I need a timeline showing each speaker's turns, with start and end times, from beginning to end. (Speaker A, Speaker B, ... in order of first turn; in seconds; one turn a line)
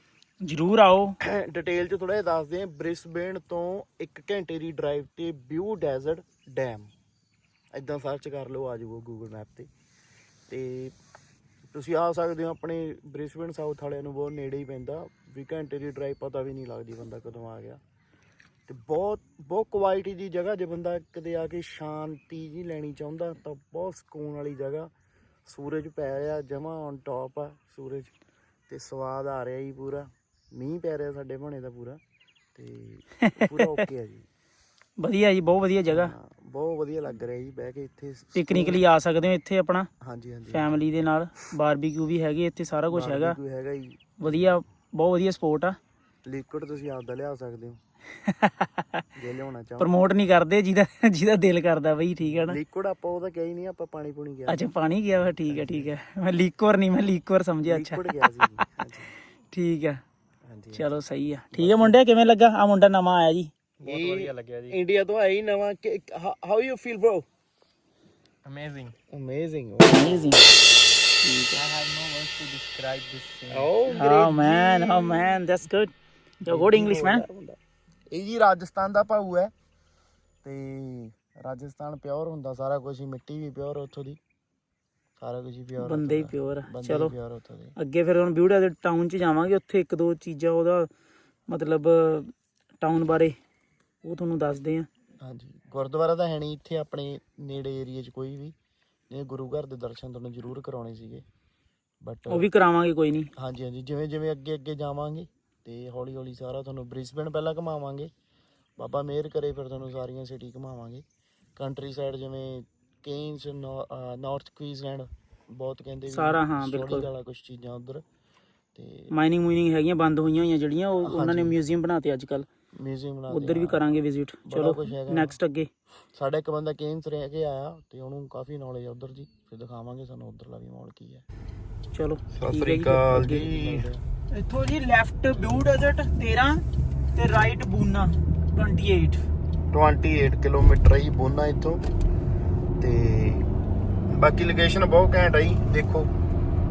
Speaker A: 0.4-1.2
Speaker B: 1.2-6.9
Speaker B: 7.7-9.7
Speaker B: 10.5-10.9
Speaker B: 11.7-17.8
Speaker B: 18.7-24.9
Speaker B: 25.5-28.1
Speaker B: 28.7-32.0
Speaker B: 32.5-34.3
Speaker A: 33.2-33.8
Speaker A: 35.0-36.1
Speaker B: 35.9-38.8
Speaker A: 38.4-39.9
Speaker B: 40.0-40.8
Speaker A: 40.5-43.4
Speaker B: 42.9-44.3
Speaker A: 44.2-45.8
Speaker B: 46.3-47.8
Speaker A: 48.2-49.0
Speaker B: 49.2-50.0
Speaker A: 49.8-52.6
Speaker B: 52.4-54.7
Speaker A: 54.5-58.3
Speaker B: 55.2-55.9
Speaker B: 57.6-59.1
Speaker A: 59.5-60.0
Speaker B: 60.5-60.9
Speaker A: 60.7-63.5
Speaker B: 61.5-62.0
Speaker C: 63.8-64.8
Speaker B: 63.8-67.2
Speaker C: 68.5-69.0
Speaker B: 69.1-70.1
Speaker A: 69.8-70.4
Speaker A: 71.2-71.6
Speaker C: 71.5-73.9
Speaker B: 73.5-75.4
Speaker A: 73.9-75.9
Speaker A: 76.4-77.2
Speaker B: 76.5-77.6
Speaker B: 78.1-79.5
Speaker B: 80.4-84.2
Speaker B: 85.2-87.7
Speaker A: 85.8-87.1
Speaker A: 87.8-90.9
Speaker A: 91.5-93.3
Speaker A: 94.0-94.9
Speaker B: 95.2-98.5
Speaker B: 99.1-101.2
Speaker B: 102.0-102.5
Speaker A: 102.3-103.3
Speaker B: 103.4-108.1
Speaker B: 108.8-111.0
Speaker B: 111.6-118.0
Speaker A: 116.1-117.1
Speaker B: 118.8-119.1
Speaker A: 119.1-122.5
Speaker B: 121.0-121.6
Speaker B: 122.8-123.9
Speaker A: 123.3-125.7
Speaker B: 124.5-125.4
Speaker B: 126.1-131.2
Speaker A: 131.9-139.2
Speaker B: 132.3-134.0
Speaker B: 139.7-141.8
Speaker B: 142.8-143.5
Speaker B: 144.1-146.1